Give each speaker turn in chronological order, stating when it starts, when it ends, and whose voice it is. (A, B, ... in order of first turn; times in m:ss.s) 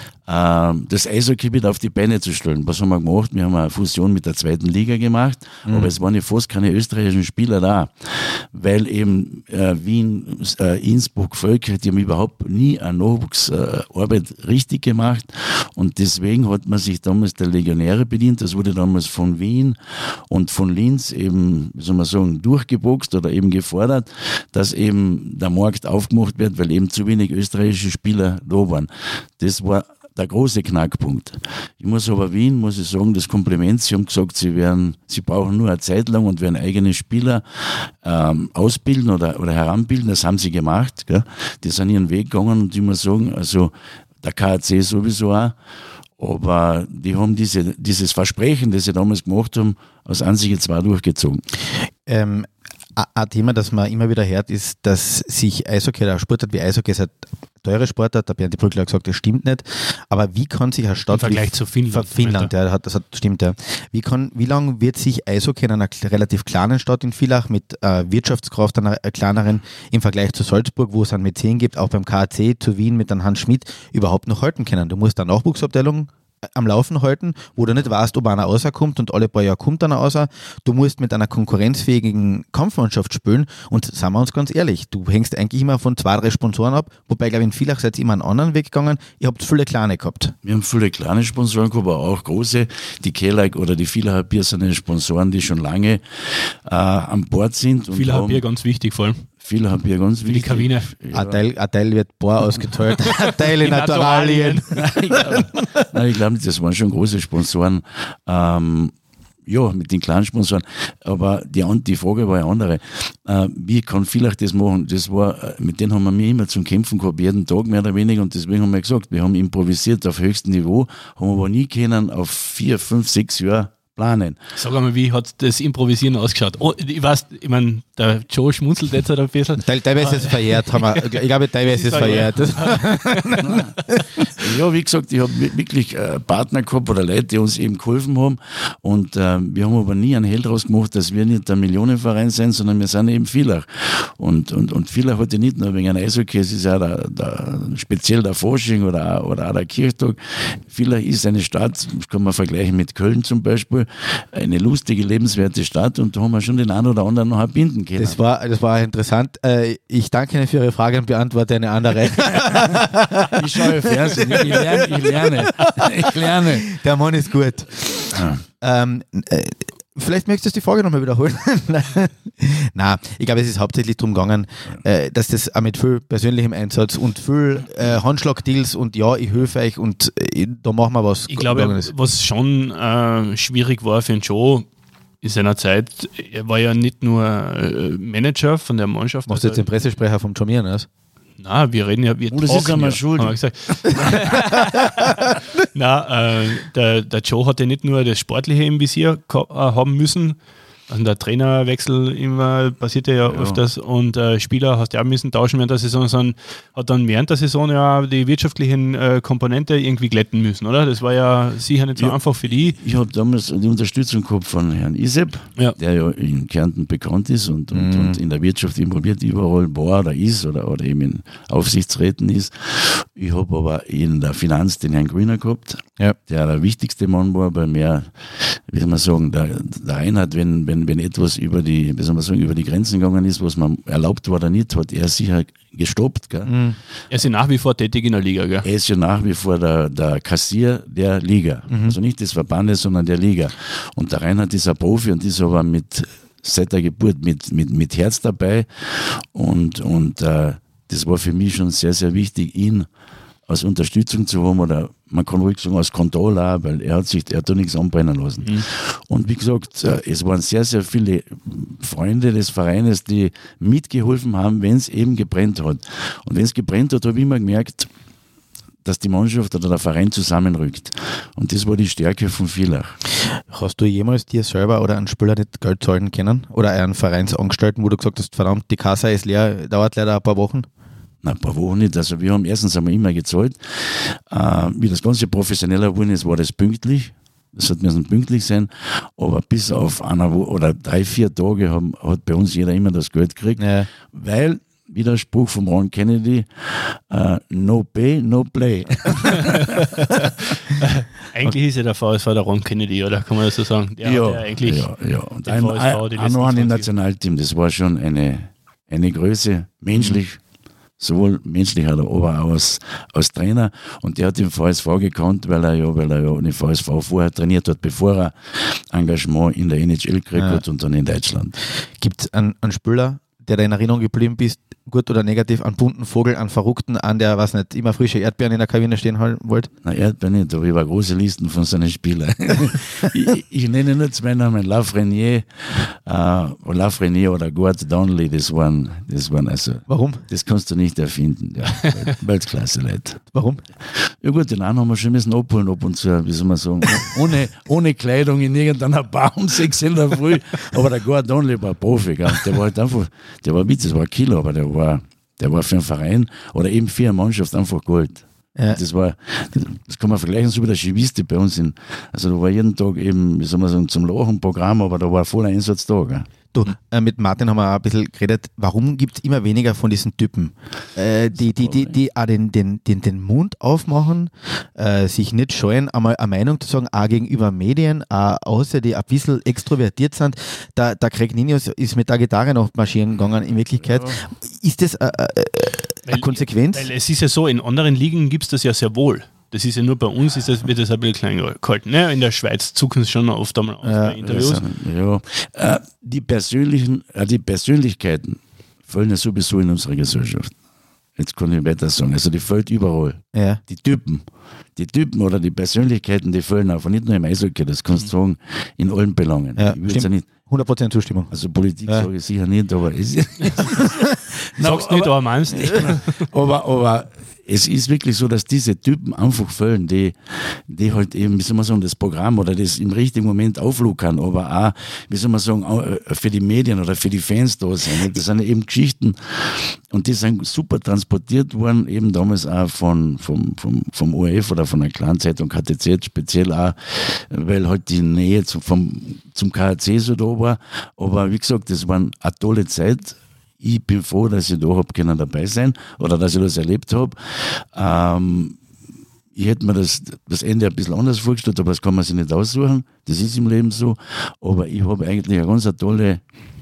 0:00.3-0:43.7 A
0:05.7-0:05.9 B
0:44.2-0:45.6 A
0:46.2-0:51.4 A
0:52.1-1:30.3 B
1:01.1-1:02.5 C
1:30.4-1:38.4 A
1:37.9-1:39.3 C
1:39.4-1:41.4 A
1:40.2-1:40.9 C
1:41.1-1:45.7 B
1:43.0-1:44.7 C
1:44.7-1:48.9 A
1:49.5-2:04.4 A
2:04.6-2:14.0 C
2:09.6-2:14.0 B
2:13.4-2:38.2 A
2:38.0-3:01.9 B
2:43.3-2:46.8 A
2:48.1-2:48.4 A
3:01.3-3:04.7 C
3:05.2-3:09.6 C
3:09.3-3:10.9 B
3:11.4-3:32.8 C
3:12.3-3:14.5 A
3:23.3-3:23.6 A
3:32.0-3:56.6 A
3:37.7-3:38.2 B
3:56.5-3:56.8 B
3:57.1-3:58.7 C
3:58.6-4:12.9 A
4:01.7-4:02.0 B
4:13.5-4:27.9 A
4:28.8-4:33.0 A
4:33.3-4:40.7 B
4:41.2-5:00.6 A
4:53.6-4:53.9 B
5:00.7-5:04.9 C
5:04.0-5:10.4 A
5:05.4-5:06.9 C
5:11.0-5:21.6 A
5:20.4-5:20.6 B
5:22.0-5:29.7 B
5:29.8-5:43.2 A
5:39.9-5:40.2 B
5:43.3-5:43.6 B
5:43.8-6:06.3 A
6:06.5-6:26.9 B
6:11.5-6:12.0 A
6:23.8-6:24.3 A
6:26.1-6:34.6 C
6:33.8-6:34.2 B
6:34.2-6:40.5 A
6:41.2-6:44.2 A
6:43.3-6:43.6 B
6:44.8-6:50.3 A
6:49.6-6:51.3 B
6:51.3-7:28.6 A
6:54.6-6:56.3 C
7:29.4-7:36.2 A